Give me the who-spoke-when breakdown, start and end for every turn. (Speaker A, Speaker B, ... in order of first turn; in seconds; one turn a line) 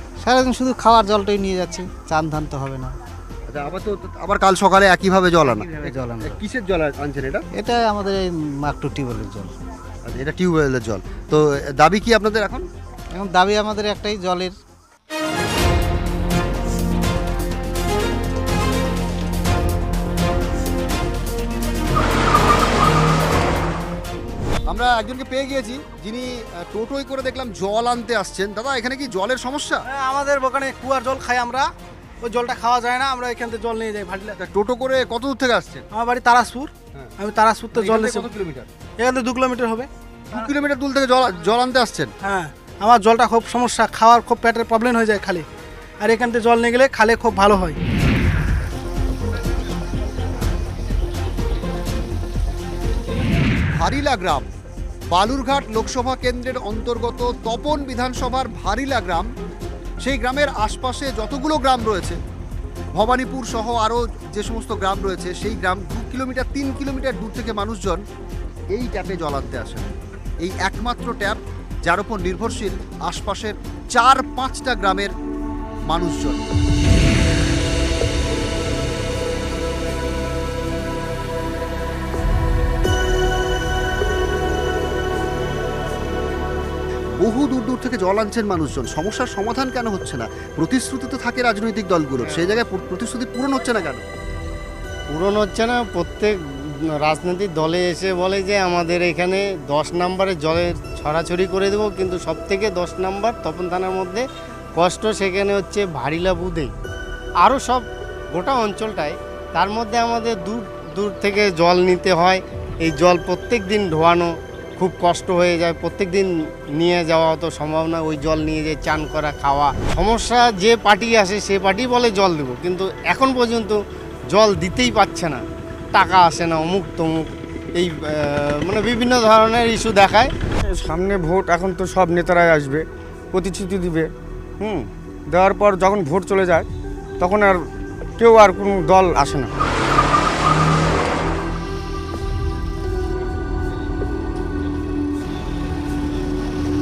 Speaker A: 0.2-2.9
Speaker B: 3.5-7.4
Speaker A: 5.5-6.4
Speaker A: 7.5-9.5
Speaker B: 10.1-12.7
Speaker A: 13.1-14.6
Speaker B: 24.7-29.8
Speaker C: 29.9-31.7
Speaker C: 32.2-34.4
Speaker B: 34.4-35.9
Speaker C: 35.9-38.2
Speaker B: 37.7-38.7
Speaker C: 39.0-39.9
Speaker B: 40.3-42.1
Speaker C: 42.2-45.4
Speaker C: 46.0-47.8
Speaker B: 53.8-54.5
Speaker B: 55.1-59.3
Speaker B: 60.0-62.2
Speaker B: 62.9-68.0
Speaker B: 68.7-69.9
Speaker B: 70.4-75.1
Speaker B: 75.9-76.4
Speaker B: 87.2-94.0
Speaker D: 92.2-92.7
Speaker D: 95.1-96.4
Speaker D: 97.0-104.2
Speaker D: 104.8-106.7
Speaker D: 107.4-123.8
Speaker D: 124.3-125.4
Speaker D: 125.9-130.3
Speaker E: 130.7-134.1
Speaker E: 134.6-136.7
Speaker E: 137.2-137.5
Speaker E: 138.2-139.5